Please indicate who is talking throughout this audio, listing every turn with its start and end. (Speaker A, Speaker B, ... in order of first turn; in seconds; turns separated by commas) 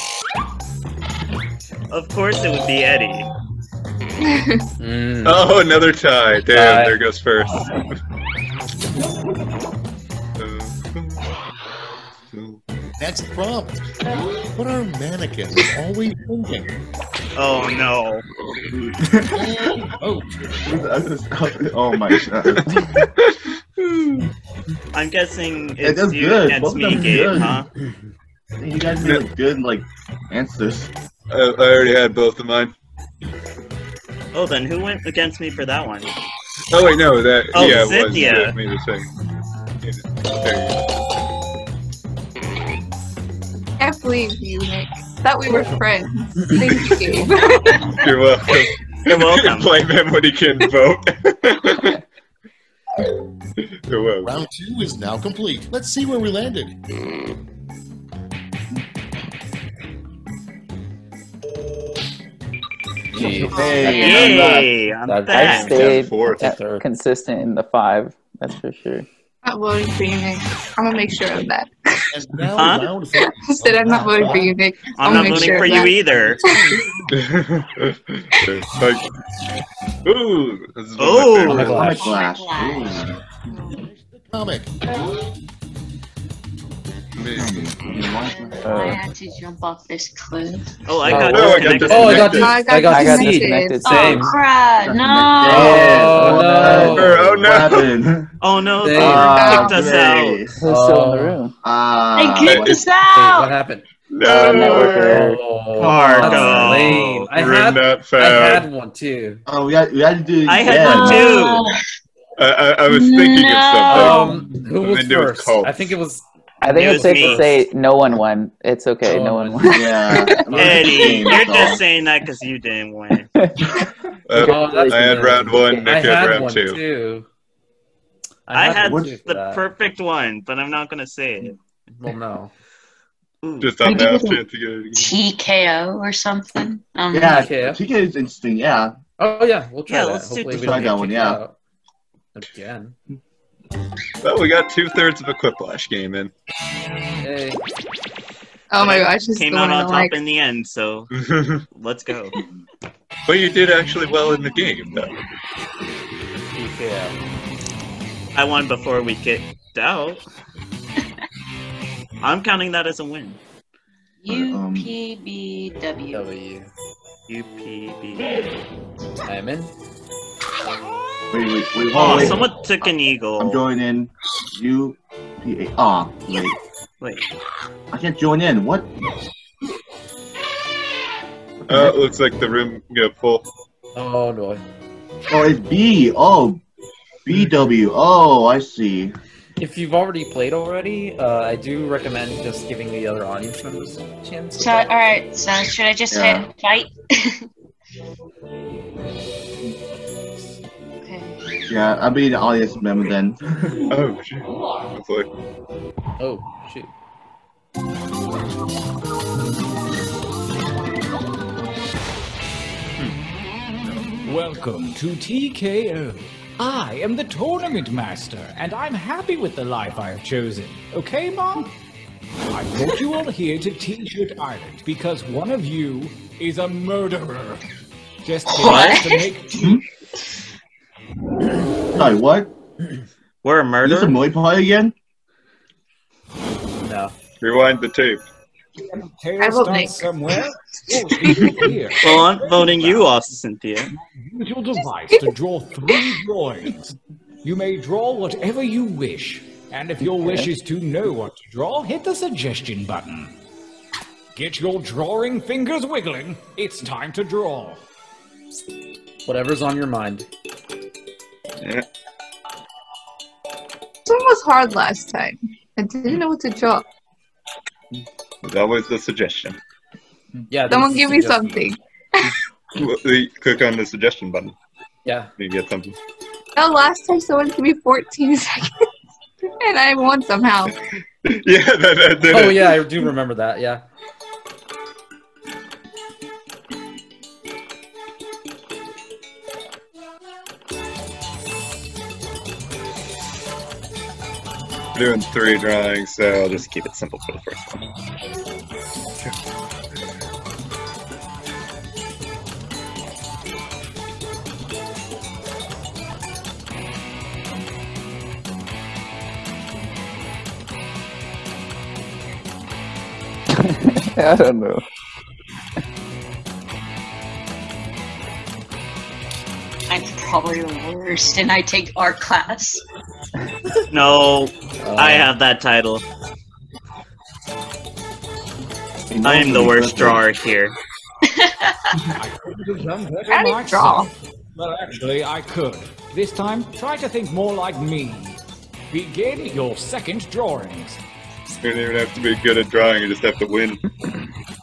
Speaker A: 1.9-3.3, Speaker B: 4.2-4.6, Speaker C: 4.8-5.4, Speaker D: 5.2-7.9, Speaker C: 6.5-7.0, Speaker D: 10.4-11.2, Speaker D: 12.3-12.6, Speaker E: 13.0-13.8, Speaker E: 14.5-16.7, Speaker A: 17.4-18.2, Speaker F: 18.7-19.9, Speaker E: 19.3-20.8, Speaker F: 20.6-22.7, Speaker D: 21.9-24.3, Speaker A: 24.9-27.7, Speaker F: 25.8-27.6, Speaker F: 28.6-30.9, Speaker D: 28.9-29.2, Speaker D: 31.3-32.7, Speaker A: 34.3-36.1, Speaker D: 36.7-39.1, Speaker A: 37.5-38.5, Speaker D: 39.8-40.8, Speaker B: 43.8-47.9, Speaker D: 47.8-52.0, Speaker A: 49.0-49.7, Speaker D: 53.9-54.4, Speaker E: 54.2-56.8, Speaker C: 63.1-64.3, Speaker F: 63.2-64.7, Speaker A: 63.9-65.8, Speaker C: 65.0-66.8, Speaker G: 65.3-69.0, Speaker D: 65.5-66.5, Speaker B: 69.4-72.0, Speaker E: 72.1-77.1, Speaker A: 72.6-72.9, Speaker B: 73.2-76.8, Speaker A: 75.0-76.4, Speaker D: 77.1-79.0, Speaker D: 80.0-81.9, Speaker A: 81.0-81.8, Speaker C: 81.5-82.1, Speaker F: 81.5-83.2, Speaker H: 81.8-83.7, Speaker E: 83.7-84.7, Speaker D: 87.2-87.6, Speaker F: 87.3-88.7, Speaker H: 88.6-90.7, Speaker G: 88.6-89.0, Speaker A: 90.8-92.5, Speaker C: 91.1-94.3, Speaker D: 91.1-92.6, Speaker B: 92.3-94.3, Speaker G: 92.8-94.2, Speaker H: 93.8-96.2, Speaker F: 94.8-98.3, Speaker C: 95.4-97.3, Speaker G: 96.2-96.7, Speaker D: 96.7-98.0, Speaker A: 98.4-100.5, Speaker C: 98.8-99.5, Speaker F: 98.9-100.5, Speaker B: 99.3-99.9, Speaker G: 100.6-101.5, Speaker C: 100.6-101.4, Speaker F: 101.6-102.8, Speaker H: 102.1-103.5, Speaker D: 102.4-102.8, Speaker C: 103.0-103.8, Speaker D: 104.1-108.7, Speaker G: 104.2-105.4, Speaker C: 104.5-109.4, Speaker A: 105.8-107.2, Speaker F: 109.5-111.5, Speaker A: 110.5-111.7, Speaker H: 110.7-111.8, Speaker D: 112.4-115.9, Speaker H: 112.9-114.4, Speaker C: 113.9-117.6, Speaker G: 116.6-120.4, Speaker A: 116.7-117.5, Speaker C: 119.0-121.0, Speaker F: 119.7-121.8, Speaker A: 120.5-123.3, Speaker G: 123.4-126.0, Speaker D: 124.3-126.8, Speaker C: 124.4-127.3, Speaker C: 128.5-129.6, Speaker A: 128.5-131.6, Speaker F: 128.8-129.1, Speaker C: 132.0-132.5, Speaker A: 133.4-134.0, Speaker D: 133.6-135.2, Speaker H: 133.8-134.3, Speaker H: 134.9-137.5, Speaker F: 137.1-138.9, Speaker C: 137.2-137.8, Speaker C: 139.2-141.6, Speaker A: 139.9-140.8, Speaker F: 140.4-141.4, Speaker C: 142.3-142.9, Speaker D: 144.2-146.3, Speaker C: 147.2-147.6, Speaker B: 148.7-150.2, Speaker A: 148.8-151.1, Speaker D: 151.1-151.6, Speaker A: 151.7-152.4, Speaker D: 153.2-155.1, Speaker C: 156.5-157.2, Speaker A: 158.3-160.2, Speaker A: 162.2-163.4, Speaker H: 164.2-166.2, Speaker F: 164.3-164.9, Speaker C: 166.1-166.7, Speaker A: 167.3-168.4, Speaker C: 169.2-169.7, Speaker F: 171.3-176.6, Speaker A: 171.9-173.6, Speaker F: 177.9-178.9, Speaker D: 181.7-183.4, Speaker C: 183.9-184.6, Speaker F: 185.3-186.6, Speaker F: 187.2-189.2, Speaker C: 189.6-194.9, Speaker H: 194.6-197.4, Speaker F: 196.1-196.5, Speaker H: 201.0-201.4, Speaker F: 201.7-203.8, Speaker D: 203.8-205.3, Speaker C: 206.2-206.9, Speaker I: 214.2-221.7, Speaker I: 222.5-227.6, Speaker I: 228.2-229.8, Speaker H: 228.5-229.2, Speaker F: 229.5-229.8, Speaker F: 231.9-232.5, Speaker A: 233.4-234.2, Speaker F: 233.8-234.9, Speaker C: 236.8-237.1, Speaker D: 237.4-238.2, Speaker I: 238.9-243.1, Speaker B: 239.4-240.0, Speaker B: 241.2-241.6, Speaker A: 242.0-243.9, Speaker I: 243.9-253.3, Speaker G: 250.2-250.5, Speaker I: 254.3-257.8, Speaker C: 259.2-260.3, Speaker B: 264.1-266.9, Speaker D: 268.4-269.6, Speaker C: 270.5-271.7, Speaker B: 270.7-272.3, Speaker D: 272.8-274.5, Speaker C: 275.0-275.3, Speaker D: 275.4-276.0, Speaker B: 276.6-278.7, Speaker B: 279.6-280.7, Speaker D: 281.2-282.8, Speaker C: 282.3-283.8, Speaker D: 294.9-297.8, Speaker G: 313.5-314.8, Speaker H: 319.9-322.8, Speaker A: 323.9-326.0, Speaker C: 324.8-325.3, Speaker F: 329.1-330.2, Speaker A: 329.2-330.8, Speaker H: 331.2-331.9, Speaker I: 332.1-338.4, Speaker B: 333.3-334.1, Speaker I: 338.9-341.0, Speaker D: 341.6-343.8